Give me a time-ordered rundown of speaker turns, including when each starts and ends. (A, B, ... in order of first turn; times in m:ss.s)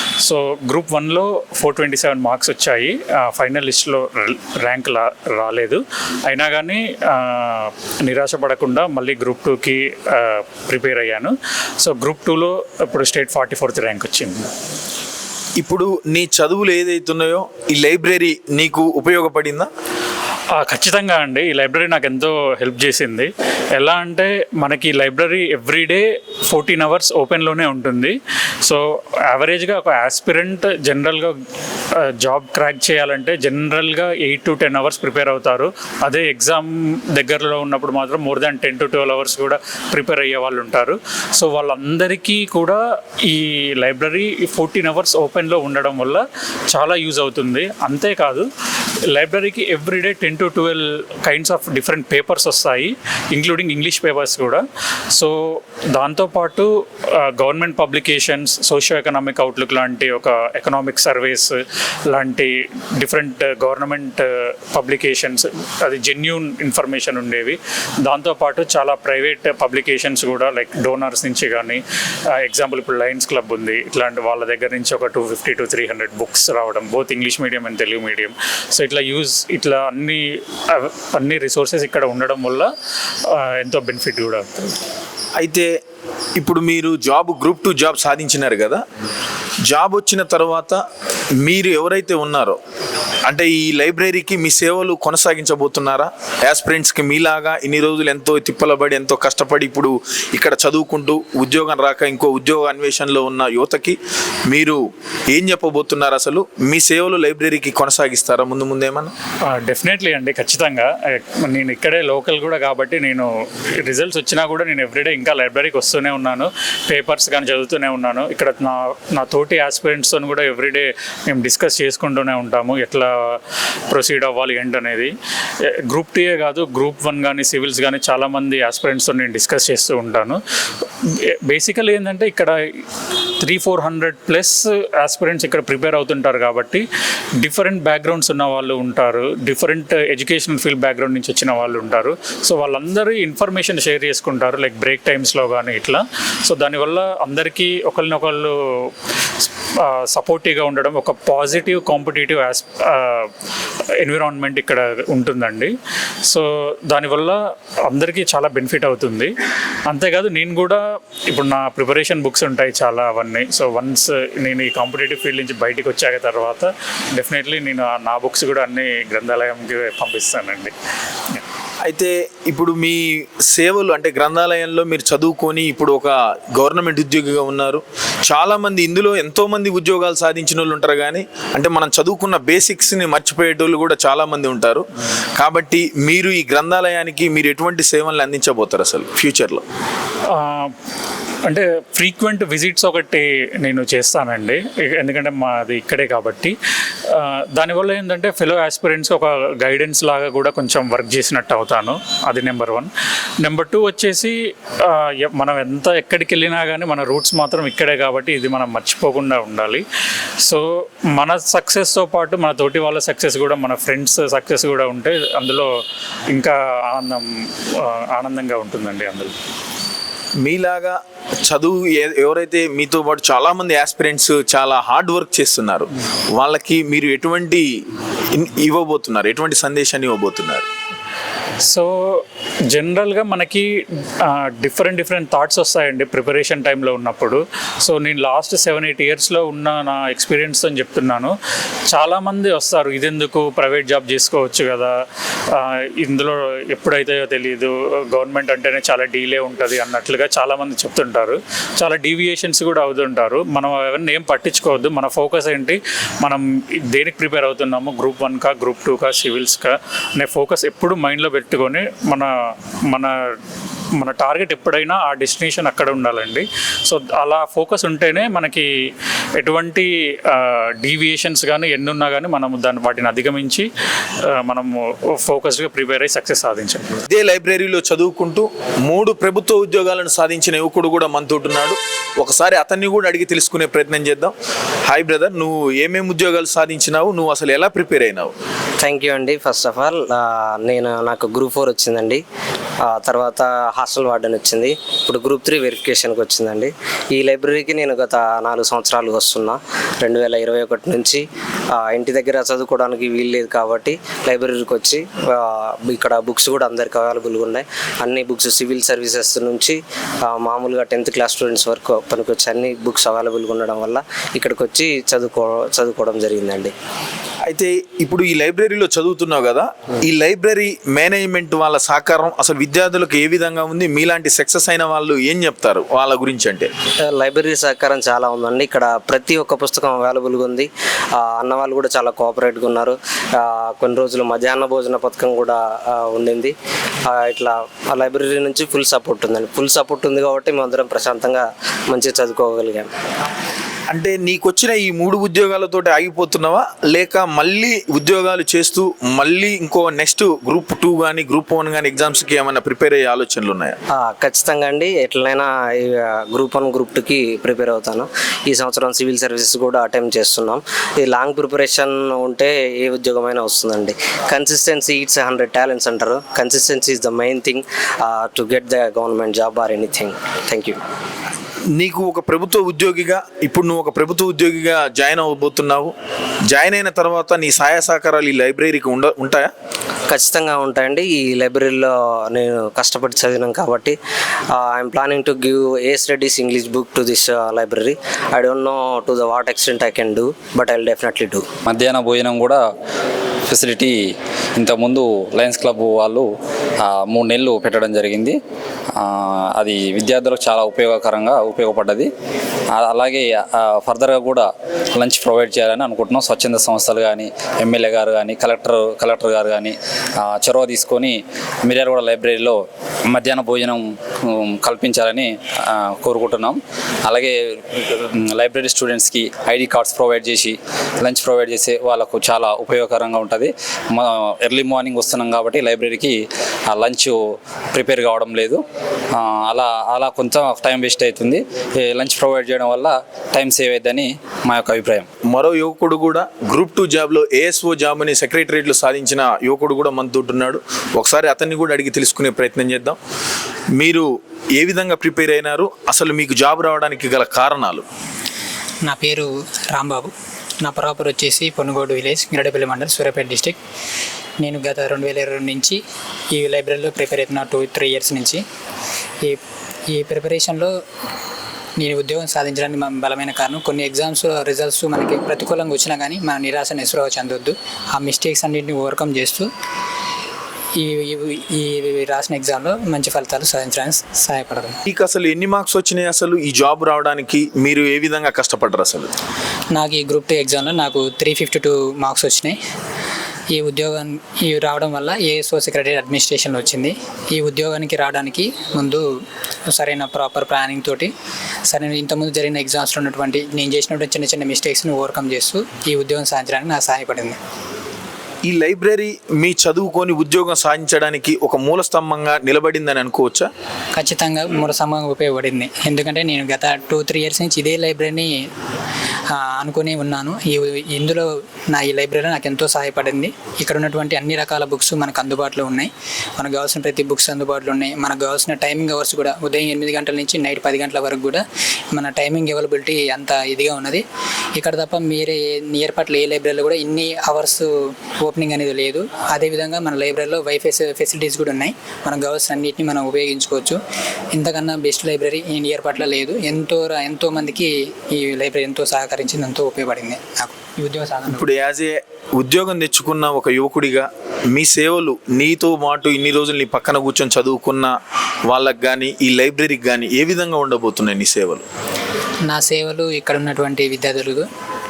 0:00.2-0:11.3 A
0:11.8-0:14.4 A
0:15.6-0:19.7 B
0:20.6-0:28.1 A
0:29.3-0:31.3 A
0:32.2-0:42.8 A
0:43.4-0:46.2 A
0:46.7-0:48.5 A
0:49.1-0:54.6 A
0:56.0-0:56.6 A
0:57.4-1:01.5 A
1:02.1-1:04.2 A
1:04.8-1:11.8 A
1:12.5-1:20.2 A
1:21.2-1:22.7 A
1:23.6-1:24.7 A
1:25.4-1:25.7 B
1:26.4-1:28.8 B
1:29.7-1:30.8 B
1:31.4-1:32.6 B
1:33.3-1:44.0 B
1:44.5-1:44.8 B
1:45.3-1:49.1 B
1:49.6-1:50.9 A
1:51.5-1:53.3 A
1:53.8-2:03.1 A
2:03.9-2:05.1 A
2:05.9-2:10.4 A
2:11.5-2:12.5 A
2:13.4-2:16.8 A
2:17.4-2:28.5 A
2:30.2-2:33.2 A
2:34.0-2:35.7 A
2:36.3-2:37.4 A
2:37.9-2:39.3 A
2:39.9-2:40.8 A
2:41.3-2:50.7 A
2:51.8-2:53.0 B
2:53.5-3:04.8 B
3:05.4-3:09.6 B
3:10.4-3:10.7 A
3:11.5-3:16.5 A
3:17.6-3:22.9 A
3:23.4-3:24.3 A
3:25.4-3:29.8 A
3:31.2-3:35.7 A
3:36.3-3:37.2 A
3:38.1-3:39.3 A
3:40.4-3:47.6 B
3:48.3-3:50.6 B
3:52.7-3:53.6 A
3:54.6-4:01.3 A
4:01.9-4:04.9 A
4:06.0-4:19.7 A
4:20.2-4:22.3 A
4:24.0-4:28.6 A
4:29.4-4:29.9 A
4:30.4-4:33.6 A
4:34.5-4:34.7 A
4:35.3-4:36.9 A
4:37.1-4:44.3 B
4:44.9-4:48.3 B
4:48.8-4:52.2 C
4:52.8-5:16.7 C
5:17.5-5:26.7 B
5:27.0-5:42.9 C
5:43.9-5:53.8 B
5:53.9-6:10.8 C
6:11.8-6:15.9 B
6:16.5-6:19.5 B
6:20.1-6:24.0 C
6:24.5-6:31.4 C
6:31.7-6:32.6 D
6:33.5-6:33.9 D
6:34.6-6:36.2 D
6:36.8-6:38.4 D
6:39.0-6:42.1 D
6:42.7-6:52.6 D
6:53.1-7:07.2 D
7:07.7-7:08.6 D
7:09.2-7:15.0 D
7:15.3-7:23.0 B
7:23.8-7:24.0 B
7:24.6-7:27.8 B
7:28.8-7:33.6 E
7:34.4-7:35.8 E
7:36.3-7:38.4 E
7:39.2-7:40.7 E
7:41.8-7:49.5 E
7:50.8-7:54.8 E
7:54.9-7:59.1 B
7:59.7-8:02.6 E
8:03.5-8:09.0 E
8:09.7-8:11.1 E
8:11.7-8:17.4 E
8:18.5-8:23.5 B
8:23.9-8:28.4 E
8:29.3-8:53.8 E
8:54.3-9:01.4 E
9:01.3-9:07.9 B
9:08.5-9:11.6 B
9:12.5-9:14.5 E